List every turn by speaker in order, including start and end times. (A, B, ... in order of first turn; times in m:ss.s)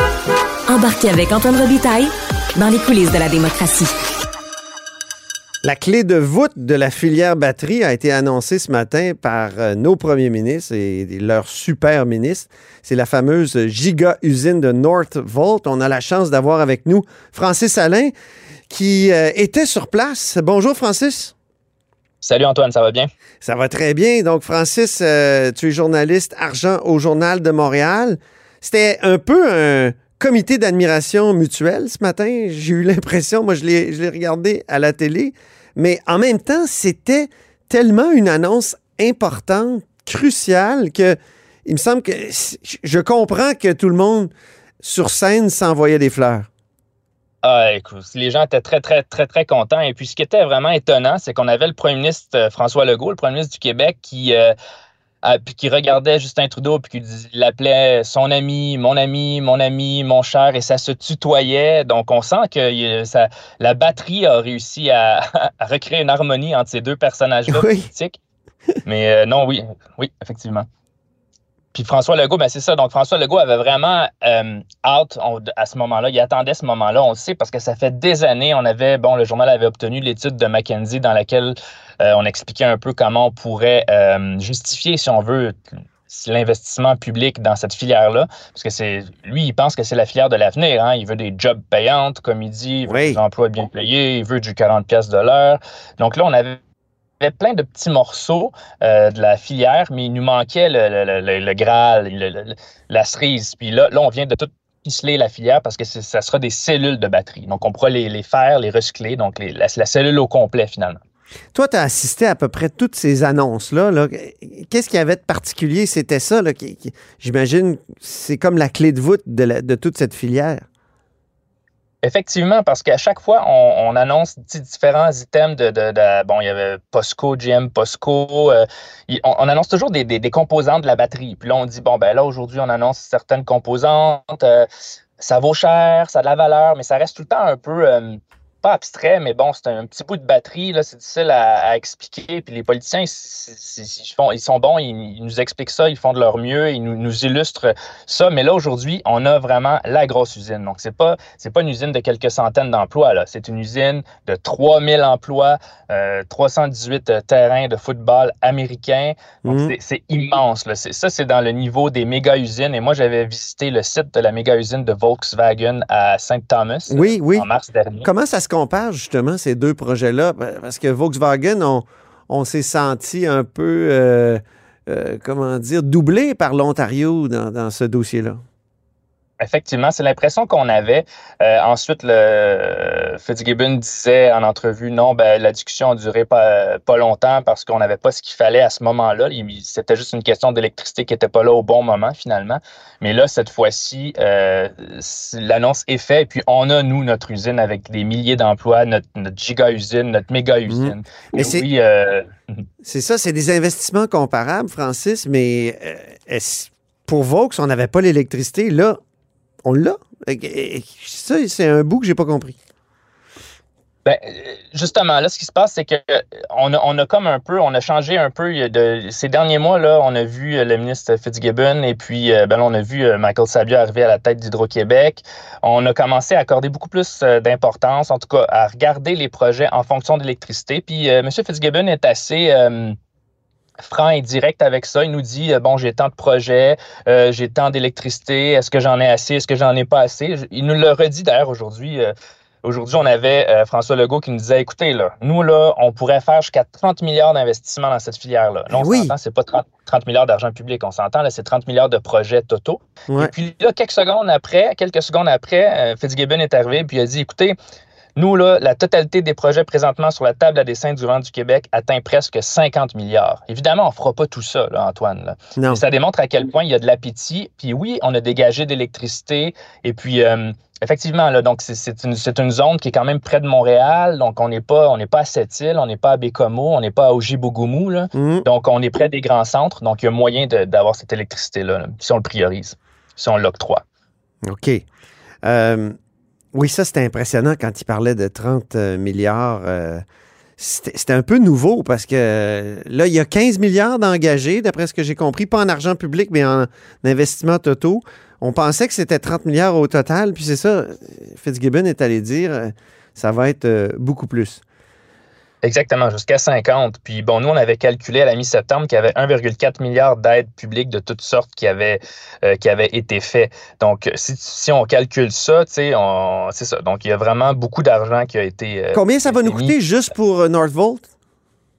0:00.7-0:03.9 A
0:05.6-0:18.1 B
0:18.7-0:21.3 B
0:22.2-0:23.1 C
0:23.4-0:44.3 B
0:44.8-0:46.5 B
0:47.4-0:54.5 C
0:55.2-1:08.2 C
1:07.5-1:07.8 B
1:08.8-1:10.6 C
1:11.7-1:25.5 C
1:26.1-1:36.6 C
1:32.9-1:33.2 B
1:37.2-1:51.0 C
1:51.5-2:00.6 B
2:02.0-2:14.7 C
2:15.2-2:48.1 C
2:39.4-2:39.7 B
2:46.9-2:47.5 B
2:48.0-2:58.4 B
2:59.4-3:22.6 C
3:20.7-3:21.7 B
3:22.8-3:29.0 B
3:29.6-3:32.6 B
3:34.0-3:52.9 C
3:53.8-4:17.6 C
4:08.7-4:09.1 B
4:18.2-4:43.8 C
4:25.6-4:25.8 B
4:38.1-4:38.4 B
4:44.4-4:44.8 B
4:45.4-4:45.9 B
4:46.5-4:50.0 B
4:50.6-5:04.6 B
5:05.6-5:19.8 C
5:18.9-5:21.1 B